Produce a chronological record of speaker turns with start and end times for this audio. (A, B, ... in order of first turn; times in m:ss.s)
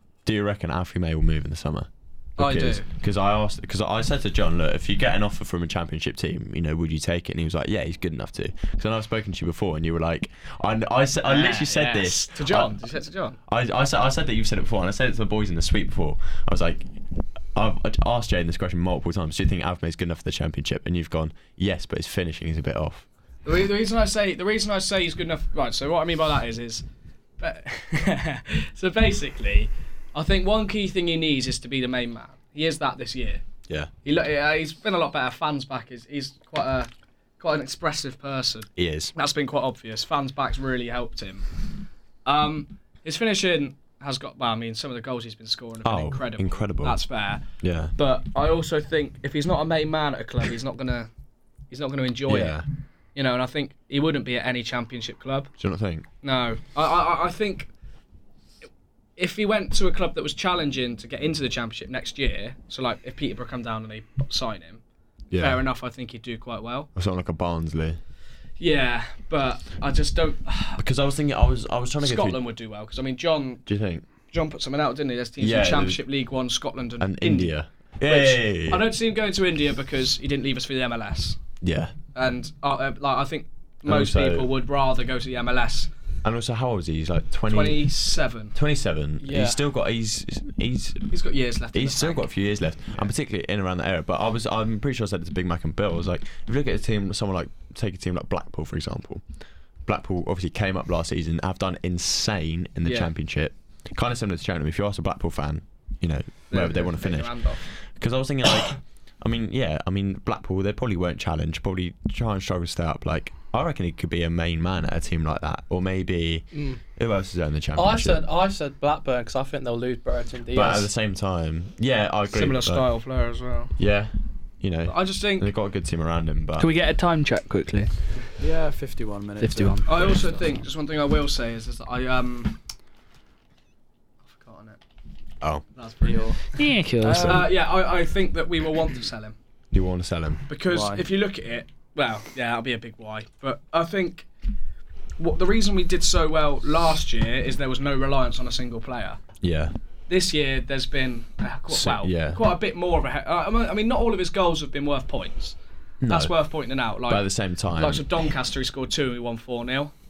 0:00.2-0:12.9 A
0:02.4-0:02.9 B
0:11.2-0:13.4 B
0:13.4-0:16.9 A
0:17.5-0:23.0 A
0:23.4-0:26.8 B
0:27.4-0:33.4 B
0:33.7-0:33.9 A
0:34.0-0:51.1 B
0:38.8-0:39.1 A
0:45.8-0:47.0 A
0:47.6-0:47.9 A
0:51.7-0:55.5 B
0:52.3-0:52.6 A
0:55.6-0:56.0 A
0:56.2-0:57.7 B
0:59.2-1:04.8 B
1:05.3-1:05.6 A
1:05.3-1:06.9 B
1:06.9-1:08.0 A
1:08.6-1:10.8 B
1:10.8-1:12.4 A
1:12.0-1:13.6 B
1:13.6-1:14.0 A
1:14.3-1:21.4 B
1:15.4-1:16.0 A
1:17.0-1:18.9 A
1:21.6-1:21.9 A
1:22.1-1:25.9 B
1:23.8-1:24.5 A
1:26.2-1:27.9 A
1:27.5-1:28.5 B
1:28.5-1:31.1 A
1:29.2-1:29.6 C
1:31.1-1:32.3 B
1:31.7-1:39.3 A
1:39.8-1:58.2 A
1:42.8-1:43.1 B
1:46.5-1:47.6 B
1:56.5-1:56.8 C
1:57.7-2:00.9 C
2:00.5-2:02.9 A
2:02.3-2:03.7 B
2:03.8-2:06.7 A
2:04.9-2:05.5 B
2:06.6-2:07.9 D
2:08.4-2:10.6 E
2:09.4-2:10.2 D
2:09.8-2:12.6 B
2:14.2-2:14.8 B
2:15.7-2:19.4 B
2:16.0-2:16.4 E
2:16.5-2:17.5 D
2:19.7-2:20.4 A
2:20.5-2:24.3 B
2:20.7-2:21.1 E
2:25.2-2:29.2 B
2:29.4-2:29.7 A
2:30.1-2:39.9 B
2:31.7-2:32.4 A
2:36.0-2:36.3 A
2:36.9-2:38.3 A